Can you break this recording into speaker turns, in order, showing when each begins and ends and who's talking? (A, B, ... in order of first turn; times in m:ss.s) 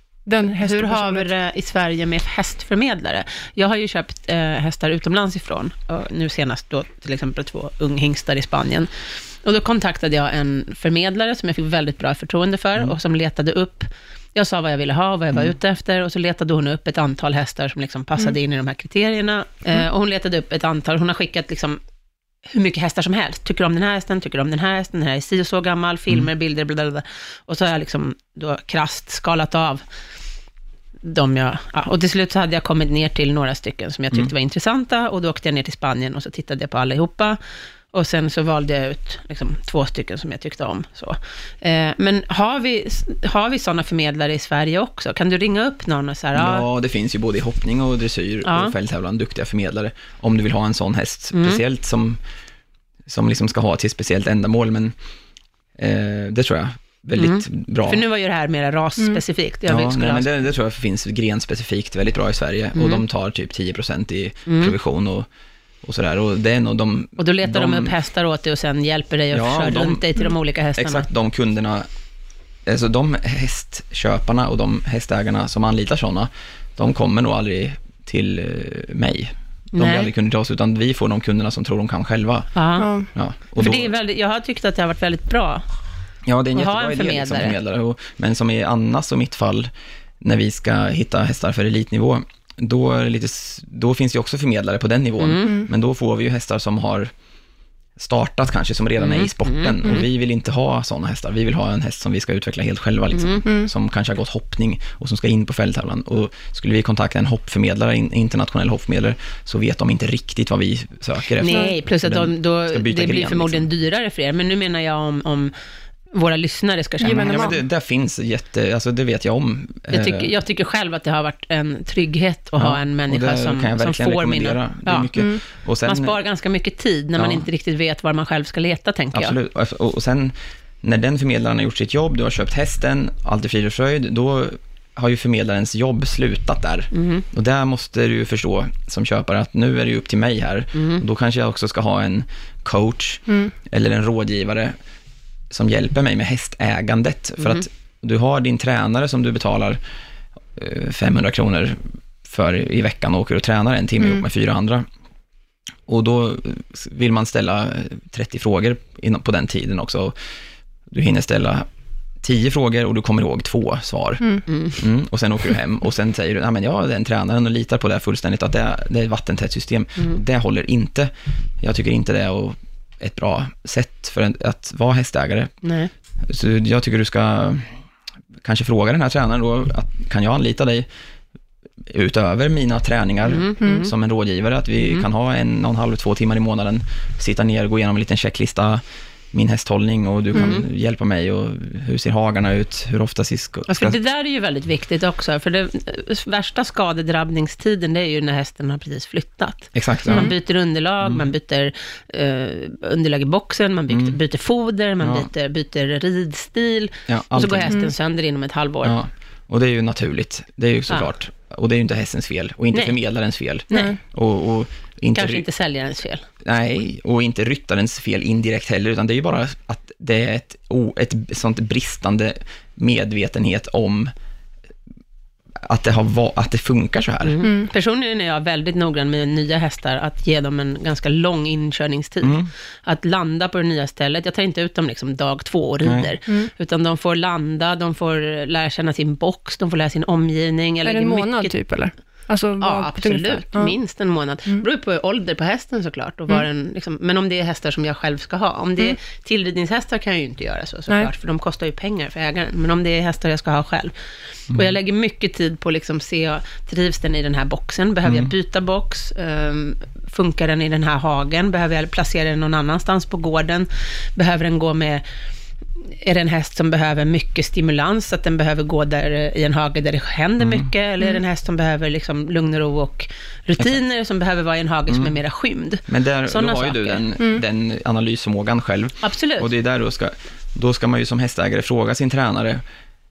0:00.2-0:01.3 A
0:00.6-0:21.8 B
0:22.4-0:29.8 B
0:31.0-0:37.4 B
0:37.9-0:46.6 B
0:46.3-0:52.2 C
0:48.4-0:48.7 B
0:51.3-0:51.6 B
0:53.0-0:54.9 C
0:55.8-0:58.0 C
0:57.2-1:00.3 B
0:59.7-1:05.3 C
1:02.7-1:03.0 B
1:04.5-1:04.7 B
1:05.8-1:07.9 C
1:07.2-1:11.1 B
1:09.3-1:10.0 C
1:10.8-1:11.9 C
1:12.6-1:22.5 C
1:19.7-1:20.1 B
1:22.5-1:22.9 B
1:22.8-1:23.1 A
1:23.1-1:23.9 C
1:23.5-1:25.6 B
1:26.2-1:37.1 C
1:26.5-1:27.6 B
1:35.2-1:35.5 B
1:35.4-1:35.7 A
1:38.0-1:53.7 C
1:39.0-1:40.0 B
1:43.1-1:43.4 B
1:51.4-1:55.5 B
1:51.5-1:51.7 A
1:56.1-1:57.5 B
1:57.0-1:57.6 A
1:57.1-2:00.3 C
1:59.9-2:05.1 B
2:02.6-2:06.1 C
2:05.1-2:05.4 A
2:05.8-2:09.4 B
2:07.2-2:07.4 C
2:09.1-2:24.8 C
2:16.9-2:17.2 B
2:20.7-2:21.0 B
2:25.5-2:29.8 C
2:30.5-2:34.8 C
2:35.9-2:40.2 C
2:40.9-2:41.7 C
2:42.2-2:55.5 C
2:44.5-2:44.8 B
2:55.6-2:55.9 B
2:56.2-2:57.8 C
2:58.4-3:00.9 C
3:01.8-3:14.0 C
3:03.2-3:03.9 B
3:10.3-3:10.6 B
3:13.7-3:29.0 B
3:19.7-3:20.3 C
3:23.9-3:24.2 C
3:25.0-3:25.3 C
3:27.1-3:27.8 C
3:28.8-3:35.4 C
3:33.7-3:34.0 A
3:35.1-3:36.2 B
3:36.4-3:44.1 C
3:45.6-3:47.4 C
3:47.2-4:01.5 B
3:47.4-3:47.7 A
3:52.2-3:52.5 C
3:55.8-3:56.1 C
4:00.8-4:03.7 A
4:02.6-4:13.9 B
4:14.5-4:25.0 B
4:18.0-4:18.3 C
4:26.0-4:37.0 B
4:30.4-4:30.7 C
4:34.9-4:35.2 C
4:35.9-4:42.6 C
4:39.0-4:39.5 B